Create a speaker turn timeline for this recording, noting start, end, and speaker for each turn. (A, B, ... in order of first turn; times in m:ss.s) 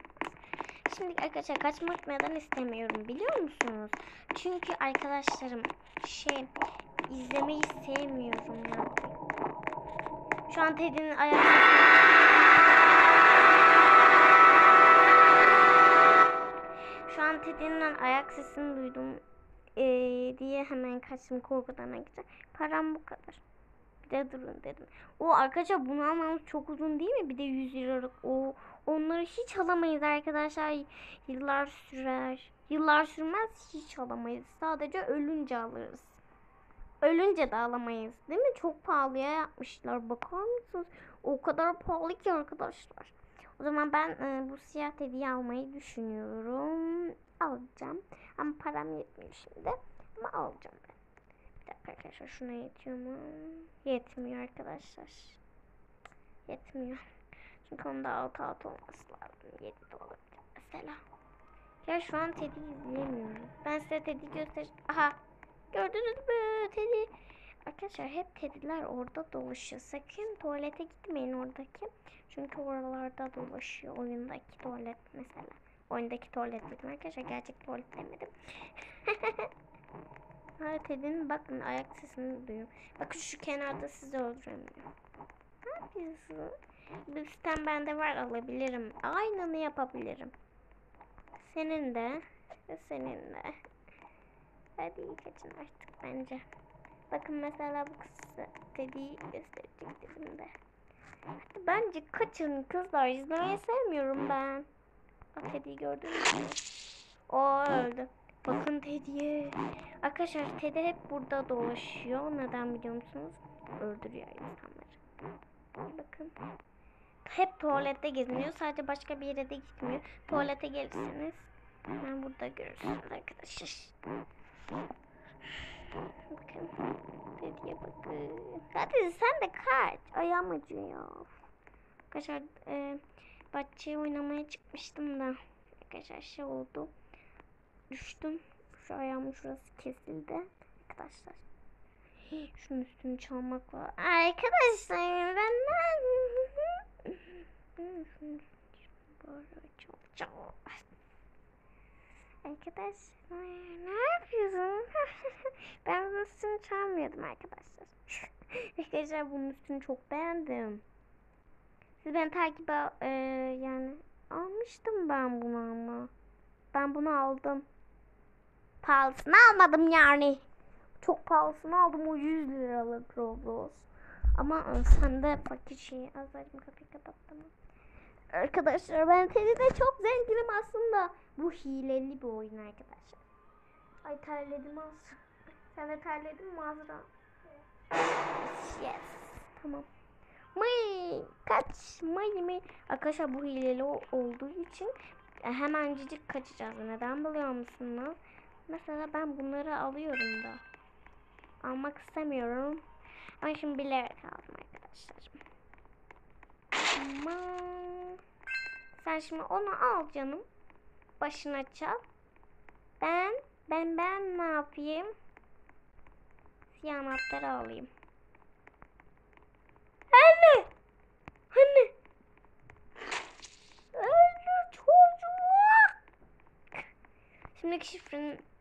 0:00.8-0:06.5 A
0:07.1-0:09.3 A
0:10.5-0:12.2 A
0:17.1-0:19.2 A
0:19.8-0:23.4 A
0:24.0-0:36.2 A
0:37.0-0:51.0 A
0:51.6-0:55.4 A
0:56.4-0:57.0 A
0:57.6-1:01.0 A
1:01.8-1:05.2 A
1:05.7-1:07.1 A
1:07.6-1:19.5 A
1:20.6-1:24.9 A
1:25.6-1:26.5 A
1:27.0-1:30.3 A
1:31.4-1:33.6 A
1:34.8-1:36.4 A
1:37.1-1:40.5 A
1:41.4-1:44.7 A
1:45.3-1:46.6 A
1:47.3-1:55.0 A
1:55.9-1:56.3 A
1:57.2-2:03.9 A
2:06.3-2:06.8 A
2:07.4-2:11.3 A
2:12.1-2:16.9 A
2:17.9-2:21.4 A
2:22.3-2:30.8 A
2:32.4-2:40.8 A
2:42.0-2:46.1 A
2:46.7-2:47.6 A
2:48.8-2:50.4 A
2:51.0-2:57.5 A
2:58.3-3:03.2 A
3:04.0-3:05.2 A
3:05.7-3:07.1 A
3:08.3-3:09.9 A
3:10.5-3:20.6 A
3:21.6-3:22.8 A
3:23.4-3:25.4 A
3:26.9-3:28.2 A
3:29.0-3:30.4 A
3:31.2-3:32.0 A
3:33.0-3:35.1 A
3:36.7-3:37.9 A
3:40.1-3:40.7 A
3:41.5-3:41.9 A
3:43.9-3:45.9 A
3:47.5-3:48.4 A